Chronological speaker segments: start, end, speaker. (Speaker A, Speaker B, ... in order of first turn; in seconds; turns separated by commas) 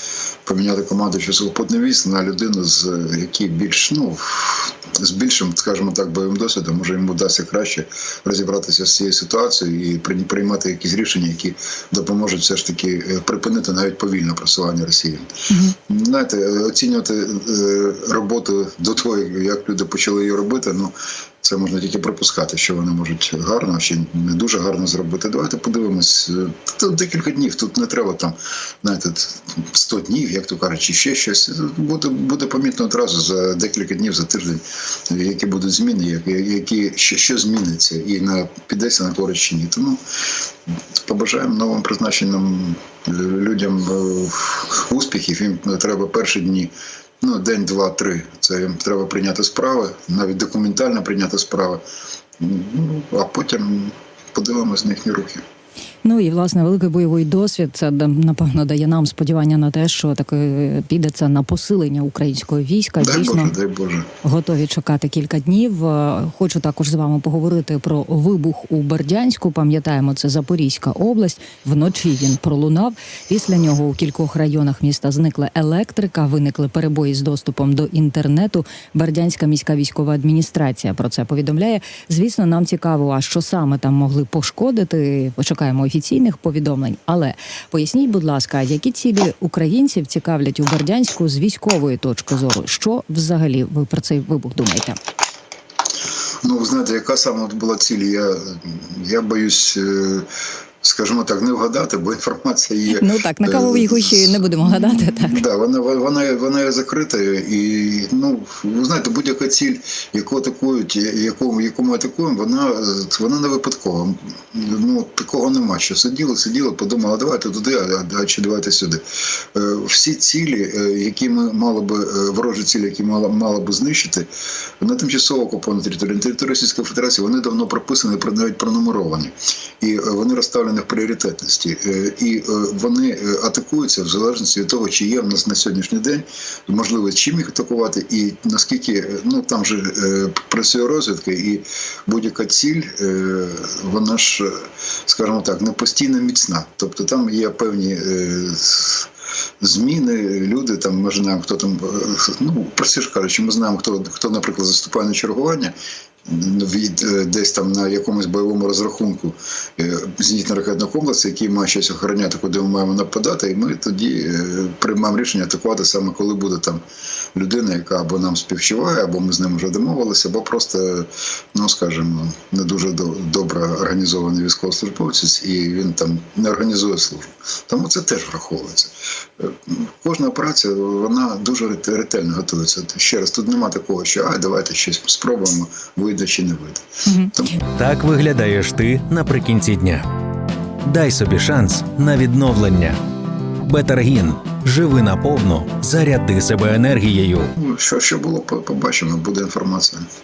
Speaker A: 0.5-15.3, Speaker B: 15.5-15.8, Speaker A: 15.9-40.0, Speaker A: 41.1-51.8, Speaker A: 52.4-55.4, Speaker B: 56.0-63.5, Speaker A: 63.0-64.1, Speaker B: 64.2-95.0, Speaker A: 96.4-100.3, Speaker A: 100.8-119.0, Speaker B: 102.9-105.4, Speaker A: 119.5-124.3, Speaker A: 124.8-144.6, Speaker A: 145.1-149.1, Speaker A: 149.6-155.7, Speaker A: 156.3-166.8, Speaker A: 167.3-186.9, Speaker B: 187.1-187.3, Speaker C: 187.8-190.0, Speaker C: 190.9-193.0, Speaker C: 193.7-197.5, Speaker A: 197.6-200.0